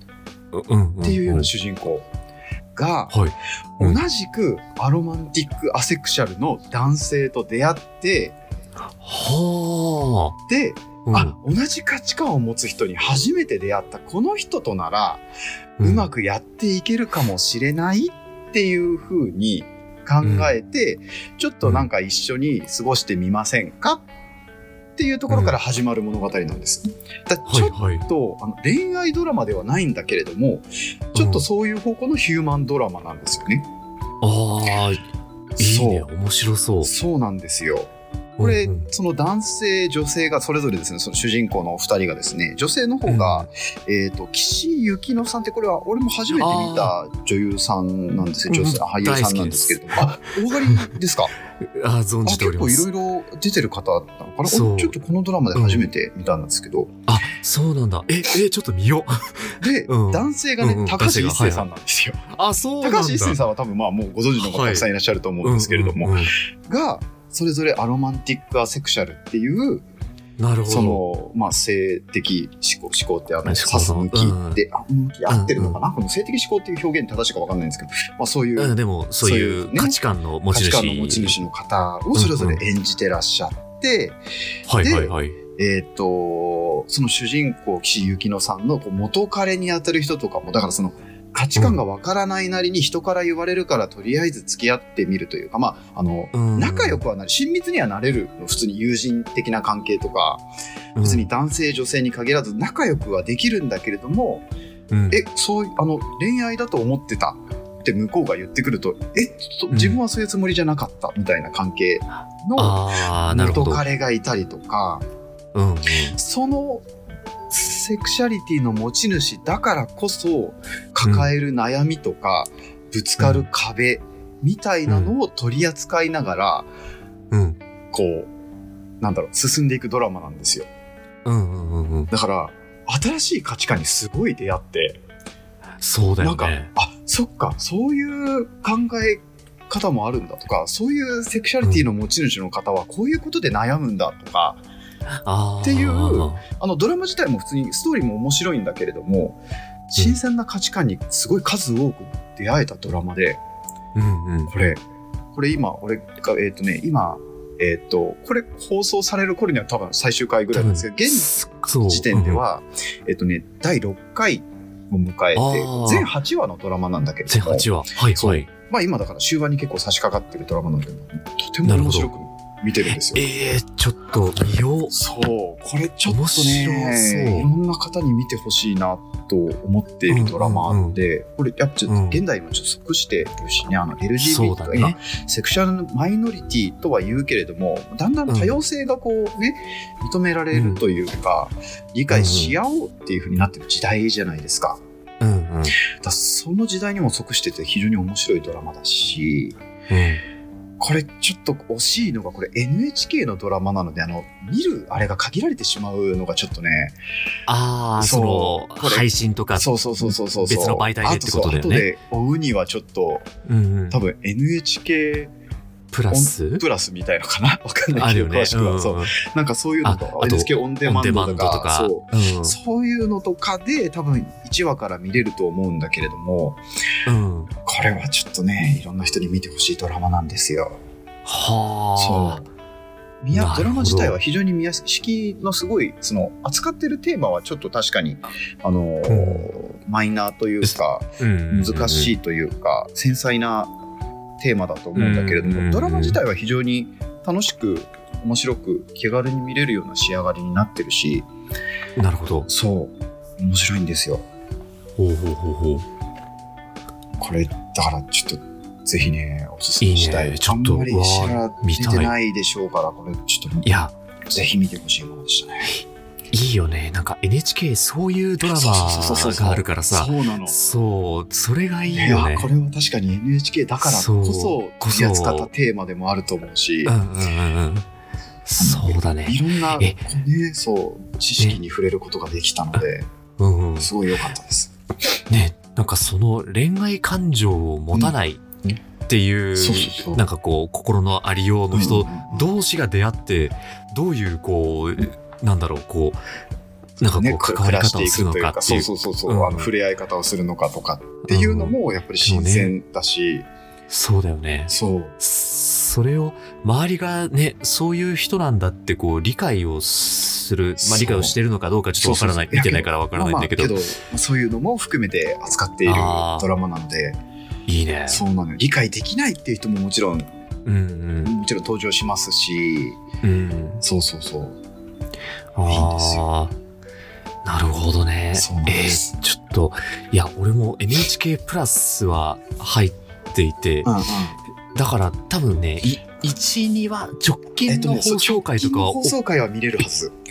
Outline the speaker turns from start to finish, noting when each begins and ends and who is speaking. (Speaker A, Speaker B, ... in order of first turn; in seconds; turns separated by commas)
Speaker A: 0.5-1.5, Speaker B: 1.0-2.1, Speaker B: 2.8-3.1, Speaker A: 3.1-4.0, Speaker B: 3.8-8.4, Speaker A: 9.0-10.3, Speaker B: 10.5-15.2, Speaker A: 11.1-11.3, Speaker A: 15.8-16.1, Speaker B: 15.8-24.1, Speaker A: 20.2-20.5, Speaker A: 21.6-21.9, Speaker B: 25.0-33.7, Speaker A: 25.3-25.6, Speaker A: 27.5-28.1, Speaker A: 31.1-31.4, Speaker A: 34.2-35.0, Speaker B: 35.6-36.1, Speaker A: 35.6-36.9, Speaker B: 36.8-51.3, Speaker A: 38.4-38.9, Speaker A: 43.1-43.5, Speaker A: 46.3-46.9, Speaker A: 48.5-50.9, Speaker A: 51.6-52.9, Speaker B: 52.2-56.9, Speaker A: 54.4-55.0, Speaker A: 55.5-55.9, Speaker A: 57.1-61.7, Speaker B: 59.6-62.2, Speaker A: 62.3-63.4, Speaker B: 62.8-69.8, Speaker A: 64.4-64.9, Speaker A: 65.4-66.3, Speaker A: 70.4-71.0, Speaker B: 70.7-80.0, Speaker A: 73.5-74.6, Speaker A: 75.3-75.8, Speaker A: 78.6-81.4, Speaker B: 80.5-84.2, Speaker A: 82.1-82.6, Speaker A: 84.7-85.4, Speaker B: 84.8-100.5, Speaker A: 91.6-91.8, Speaker A: 96.3-97.0, Speaker A: 101.0-101.3, Speaker B: 101.0-104.5, Speaker A: 104.9-105.2, Speaker B: 105.1-115.0, Speaker A: 109.7-110.0, Speaker A: 112.6-113.9, Speaker A: 115.5-116.2, Speaker B: 116.1-116.8, Speaker B: 117.5-126.7, Speaker A: 121.0-121.3, Speaker A: 123.2-123.5, Speaker A: 124.9-125.2, Speaker A: 127.3-127.6, Speaker B: 127.9-128.3, Speaker B: 129.0-130.7, Speaker A: 131.2-132.1, Speaker B: 132.1-135.0, Speaker A: 135.8-136.7, Speaker B: 136.2-144.6, Speaker A: 145.2-146.4, Speaker B: 145.6-149.4, Speaker B: 149.9-153.4, Speaker A: 154.0-154.5, Speaker B: 154.5-154.8, Speaker B: 155.3-173.3, Speaker A: 160.5-162.4, Speaker A: 165.3-166.1, Speaker A: 167.3-168.5, Speaker A: 171.7-172.1, Speaker A: 172.9-174.9, Speaker B: 174.9-194.8, Speaker A: 176.1-177.5, Speaker A: 180.1-181.0, Speaker A: 181.9-182.2, Speaker A: 184.2-185.0, Speaker A: 188.3-188.6, Speaker A: 190.5-190.8, Speaker A: 192.1-192.6, Speaker A: 195.2-195.8, Speaker B: 196.0-199.6, Speaker A: 199.9-200.2, Speaker B: 200.8-207.0, Speaker A: 207.5-211.9, Speaker B: 208.0-213.3, Speaker A: 213.5-214.0, Speaker B: 213.9-215.3, Speaker A: 215.9-216.6, Speaker B: 216.1-226.6, Speaker A: 217.9-219.2, Speaker A: 219.8-222.6, Speaker A: 227.1-227.5, Speaker B: 227.6-230.7, Speaker A: 231.2-232.4, Speaker B: 232.0-232.5, Speaker B: 233.2-243.7, Speaker A: 233.3-234.2, Speaker A: 239.1-239.5, Speaker A: 240.6-242.2, Speaker B: 244.4-251.3, Speaker A: 244.9-246.2, Speaker A: 252.0-252.5, Speaker B: 252.5-254.2, Speaker A: 255.0-255.8, Speaker B: 257.2-265.7, Speaker A: 259.8-262.1, Speaker A: 263.6-263.9, Speaker A: 265.7-272.5, Speaker B: 268.4-270.6, Speaker B: 271.9-277.0, Speaker A: 273.8-275.5, Speaker A: 276.9-277.9, Speaker A: 278.4-280.0, Speaker B: 278.6-283.1, Speaker A: 283.4-283.9, Speaker B: 283.8-284.7, Speaker A: 285.3-288.4, Speaker B: 287.9-288.8, Speaker A: 289.1-296.2, Speaker B: 289.6-290.2, Speaker B: 291.7-292.5, Speaker A: 297.0-299.7, Speaker B: 297.0-303.4, Speaker A: 301.3-302.8, Speaker A: 303.9-313.8, Speaker B: 304.7-305.2, Speaker B: 310.8-311.4, Speaker B: 312.0-317.2, Speaker A: 315.9-316.5, Speaker A: 317.7-318.2, Speaker B: 318.1-320.3, Speaker A: 320.7-321.4, Speaker B: 321.2-323.0, Speaker A: 323.2-323.8, Speaker B: 323.8-324.6, Speaker A: 325.6-326.6, Speaker B: 325.6-326.2, Speaker A: 327.4-333.9, Speaker B: 328.3-329.1, Speaker B: 333.9-334.4, Speaker A: 334.7-339.2, Speaker B: 337.7-340.1